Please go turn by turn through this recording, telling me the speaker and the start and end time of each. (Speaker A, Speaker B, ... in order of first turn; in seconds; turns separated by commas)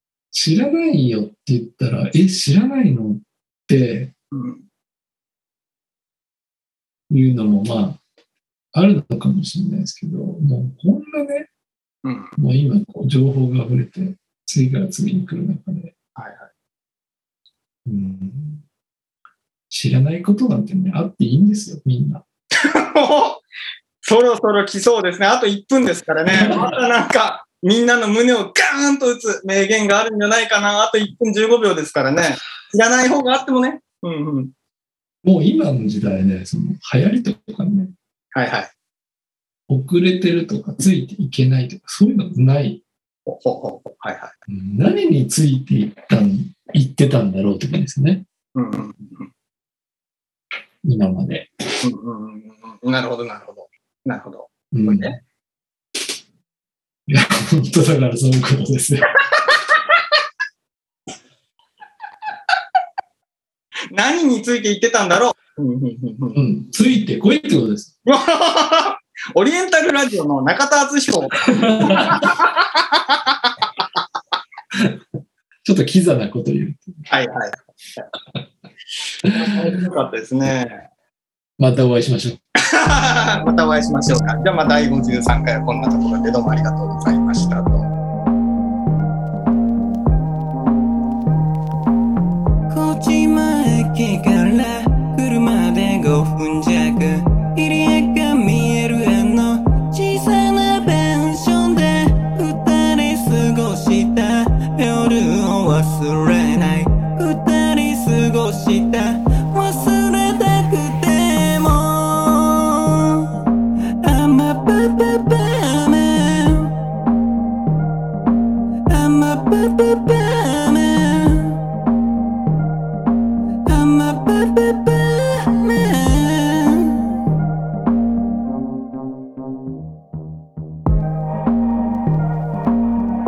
Speaker A: 0.3-4.1, Speaker B: 4.3-4.6, Speaker A: 7.1-8.0, Speaker A: 8.7-11.5, Speaker B: 12.0-12.3, Speaker A: 12.4-15.9, Speaker B: 16.1-16.5, Speaker A: 17.9-18.6, Speaker A: 19.7-22.2, Speaker B: 22.6-23.4, Speaker B: 24.0-34.5, Speaker A: 26.3-26.7, Speaker A: 35.2-37.9, Speaker B: 38.3-38.7, Speaker A: 39.7-42.8, Speaker B: 43.2-44.3, Speaker A: 44.5-48.2, Speaker B: 48.5-49.3, Speaker A: 50.8-51.5, Speaker B: 51.8-55.1, Speaker A: 54.7-55.2, Speaker A: 57.1-59.1, Speaker B: 59.3-59.7, Speaker B: 63.9-66.4, Speaker A: 66.3-67.9, Speaker B: 68.0-73.6, Speaker A: 71.5-72.3, Speaker A: 74.7-75.0, Speaker A: 75.6-77.1, Speaker B: 77.1-78.0, Speaker A: 79.2-79.7, Speaker B: 79.3-80.8, Speaker A: 81.6-82.4, Speaker B: 82.6-87.9, Speaker C: 92.7-113.4, Speaker C: 114.0-116.7, Speaker C: 118.9-121.6, Speaker C: 123.7-127.2